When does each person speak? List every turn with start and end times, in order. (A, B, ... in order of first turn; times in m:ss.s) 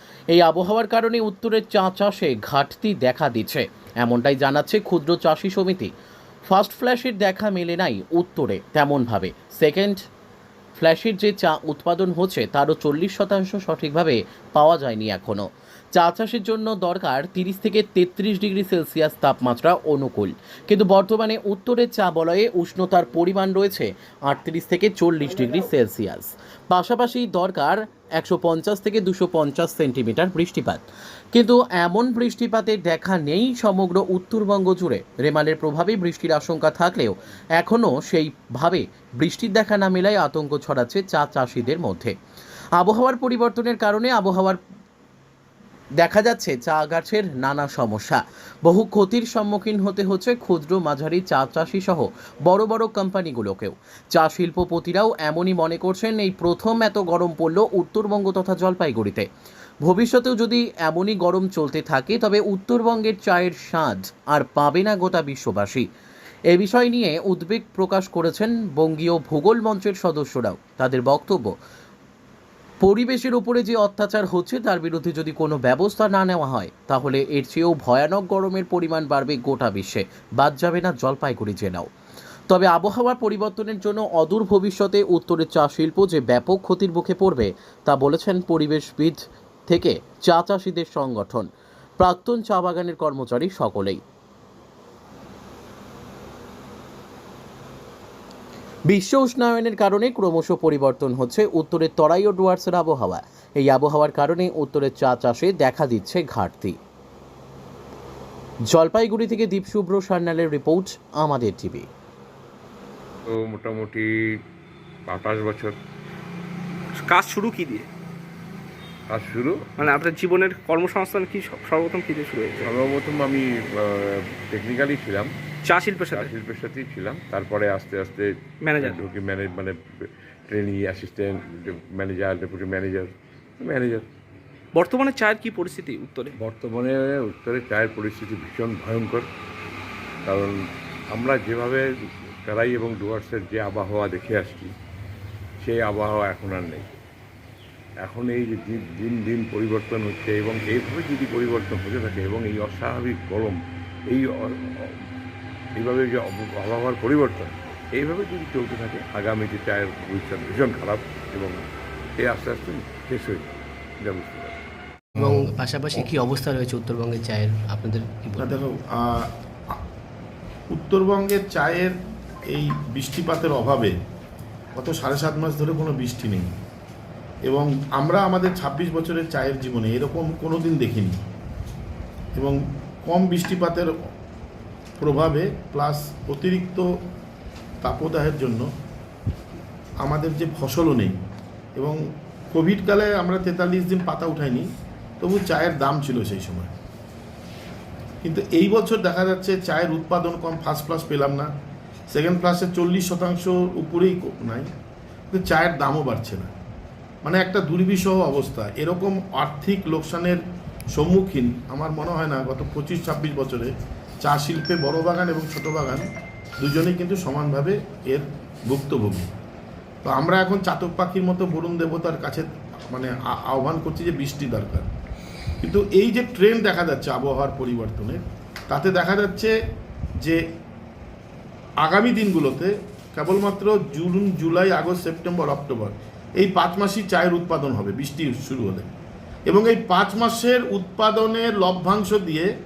0:00.3-0:05.9 A
0:06.5-0:10.1 A
0:10.8-0:42.2 A
0:42.7-0:44.6 A
0:46.0-0:59.3 A
0:59.8-1:05.9 A
1:06.5-1:11.6 A
1:12.8-1:21.9 A
1:22.5-1:34.0 A
1:38.9-1:46.8 A
1:48.7-1:51.9 A
1:53.3-1:54.0 B
1:55.1-1:55.8 B
1:57.0-1:57.9 C
1:59.1-1:59.8 B
1:59.8-2:02.7 C
2:02.6-2:05.3 B
2:05.6-2:06.3 C
2:06.1-2:09.7 B
2:08.6-2:09.0 C
2:10.5-2:14.0 B
2:14.8-2:16.3 C
2:16.4-2:19.2 B
2:20.3-2:20.6 B
2:21.1-2:21.9 B
2:22.5-2:24.7 B
2:25.6-2:26.9 B
2:28.0-2:33.6 B
2:34.1-2:34.9 B
2:35.8-2:41.6 B
2:42.2-2:43.5 B
2:44.0-2:44.6 B
2:45.2-2:48.5 D
2:48.4-2:49.8 E
2:50.7-2:51.9 E
2:52.5-2:54.0 E
2:54.8-2:56.5 E
2:57.5-3:01.2 E
3:03.1-3:03.9 E
3:05.0-3:06.9 E
3:07.8-3:08.7 E
3:10.0-3:11.2 E
3:12.5-3:14.7 E
3:15.2-3:16.7 E
3:18.2-3:21.5 E
3:22.1-3:24.7 E
3:25.3-3:26.5 E
3:27.2-3:30.4 E
3:31.0-3:33.7 E
3:34.2-3:36.1 E
3:36.6-3:39.3 E
3:40.0-3:44.9 E
3:45.6-3:49.5 E
3:51.8-3:58.9 E
3:59.5-4:02.5 E